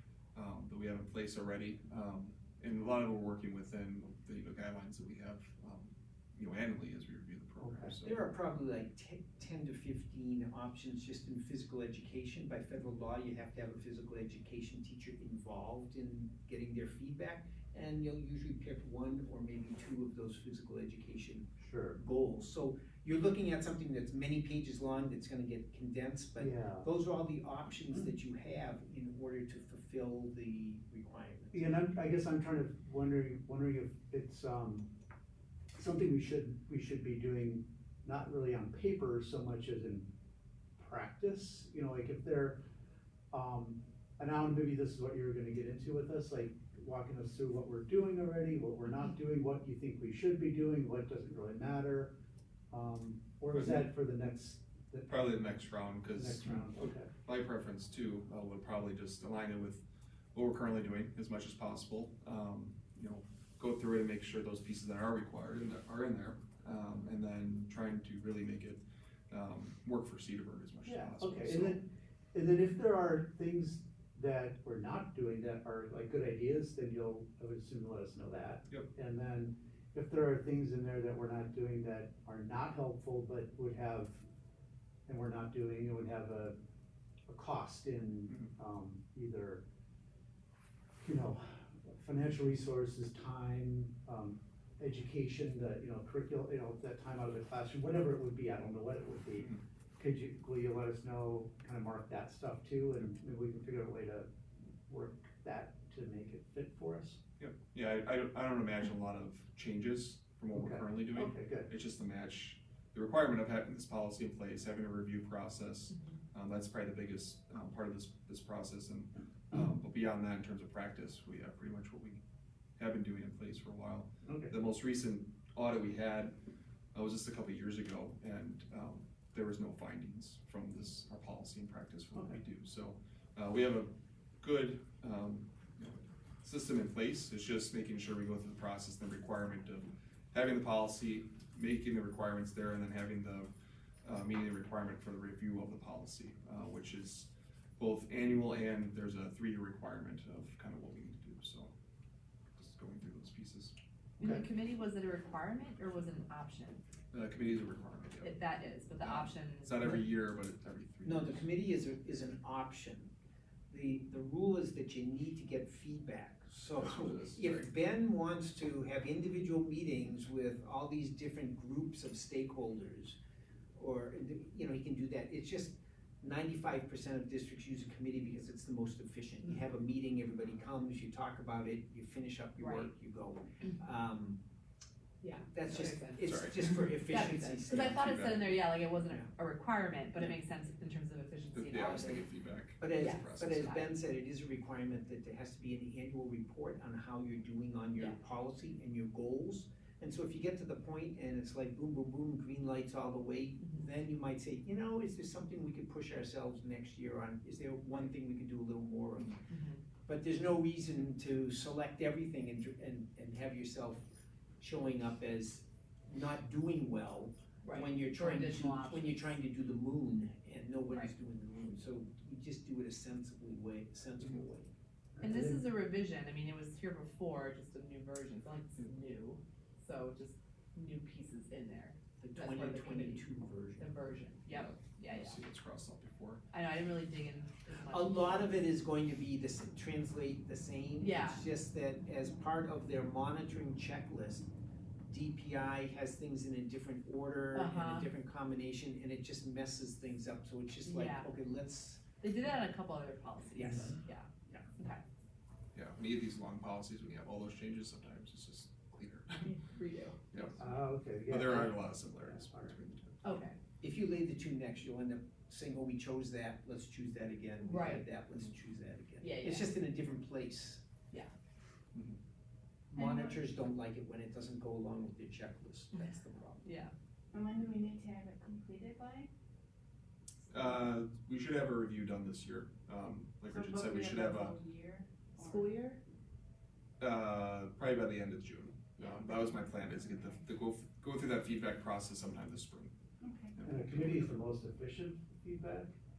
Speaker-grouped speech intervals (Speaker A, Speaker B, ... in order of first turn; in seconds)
Speaker A: 0.3-8.2, 53.5-53.9, 55.1-56.7, 57.2-71.8, 107.4-122.2, 122.8-126.4, 126.9-143.5, 144.0-151.8, 152.6-153.8, 157.1-158.4, 159.0-161.5, 166.8-167.7, 185.7-186.9, 187.7-188.5, 191.5-193.8, 234.5-236.4, 255.7-259.5, 260.3-263.2, 280.5-284.6, 287.0-292.9, 293.6-294.3
Speaker B: 7.6-8.0, 21.6-22.0, 26.4-26.9, 31.5-34.9, 35.8-40.1, 40.8-42.6, 43.3-52.1, 52.7-57.1, 70.8-84.2, 85.1-86.6, 87.3-89.6, 91.0-107.2, 110.5-111.7, 124.2-124.5, 132.1-132.4, 154.2-154.5, 225.2-225.7, 260.6-262.8, 293.6-295.9
Speaker C: 8.0-31.8, 161.0-163.1, 163.7-173.2, 173.8-184.4, 185.4-189.3, 191.7-192.2, 192.8-209.4, 210.1-214.1, 214.6-224.7, 232.2-233.9, 237.9-244.5, 245.1-252.0, 253.6-254.7, 263.8-270.8, 272.9-276.6
Speaker D: 154.2-156.8, 158.2-160.0, 182.6-182.9, 185.2-192.3, 192.9-193.8, 203.6-203.9, 209.5-209.8, 217.6-219.2, 225.2-235.4, 236.5-238.6, 241.0-241.4, 247.5-248.1, 250.8-251.3, 252.2-255.0, 259.4-260.2, 263.2-263.6, 267.6-268.1, 269.2-269.7, 275.9-276.9, 285.4-286.0
Speaker E: 273.0-273.4, 277.3-279.3, 283.5-286.0, 293.2-293.5